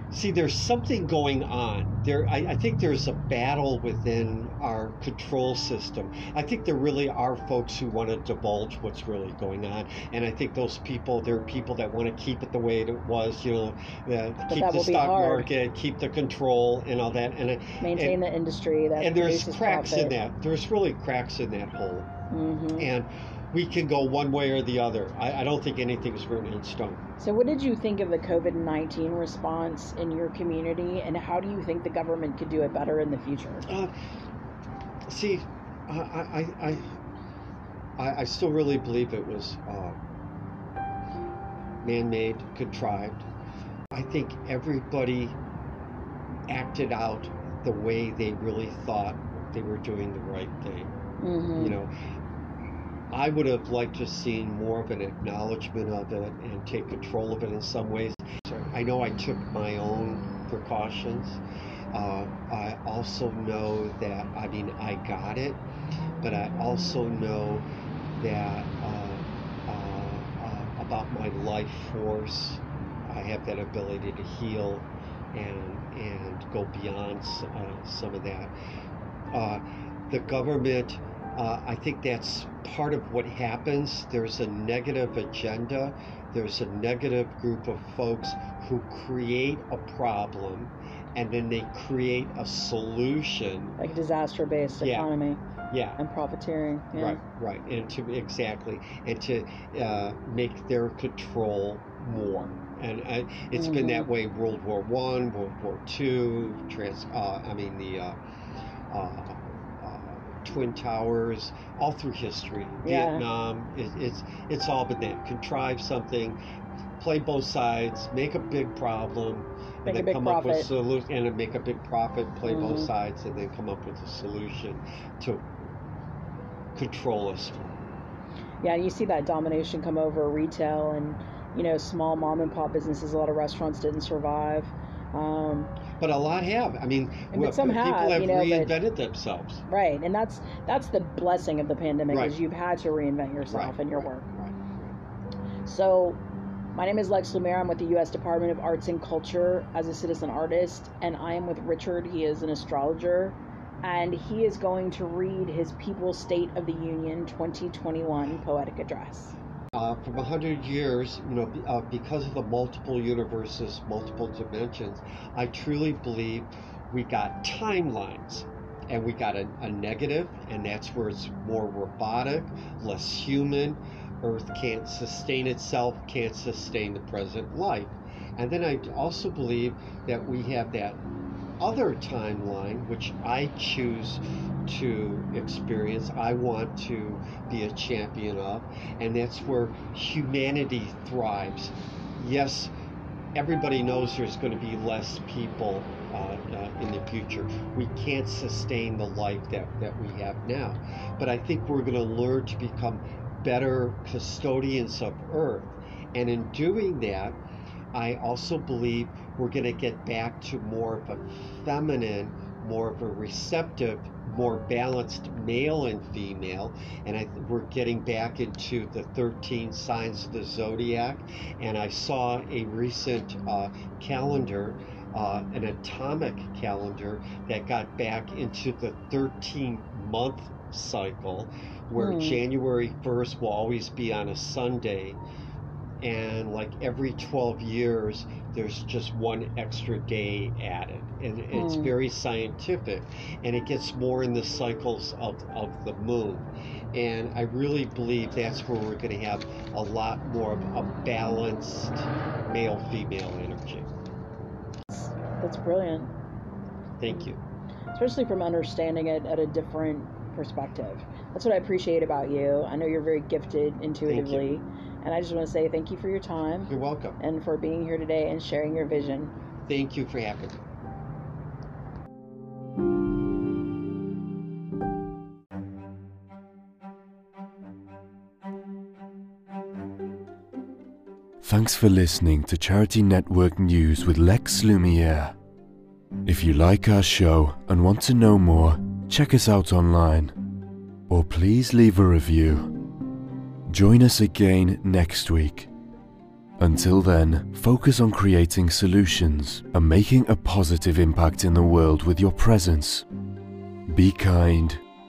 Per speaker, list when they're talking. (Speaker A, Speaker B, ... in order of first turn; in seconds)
Speaker A: 0.1-18.2, 19.0-22.1, 22.8-27.1, 33.6-33.9, 35.1-36.8, 38.0-40.0, 41.8-43.2, 43.9-45.4, 46.5-50.9, 51.5-51.9, 53.1-61.4, 61.9-65.6, 66.2-67.7, 68.2-78.5, 79.3-93.8, 94.8-95.1, 95.7-96.0, 96.9-108.2, 108.9-116.4, 117.0-125.4, 126.7-127.8, 136.0-139.6, 142.1-142.4, 143.4-144.9, 159.7-181.0, 181.6-192.7, 193.3-207.4, 207.9-235.2, 236.0-253.9, 257.0-257.4, 264.1-264.5, 266.7-267.2, 269.6-270.6
Speaker B: 14.5-15.5, 17.8-20.1, 22.3-22.9, 27.2-33.6, 51.2-51.8, 93.8-95.4, 96.0-97.2, 103.5-104.1, 112.8-113.2, 119.8-120.7, 122.5-122.9, 128.6-135.7, 137.3-138.7, 139.7-144.2, 145.7-146.2, 146.7-159.3, 232.0-232.4, 241.5-241.9, 254.9-256.1, 257.9-269.3
Speaker C: 281.4-285.3, 286.2-290.3, 291.1-292.7, 293.7-295.7, 296.6-303.1, 303.9-304.8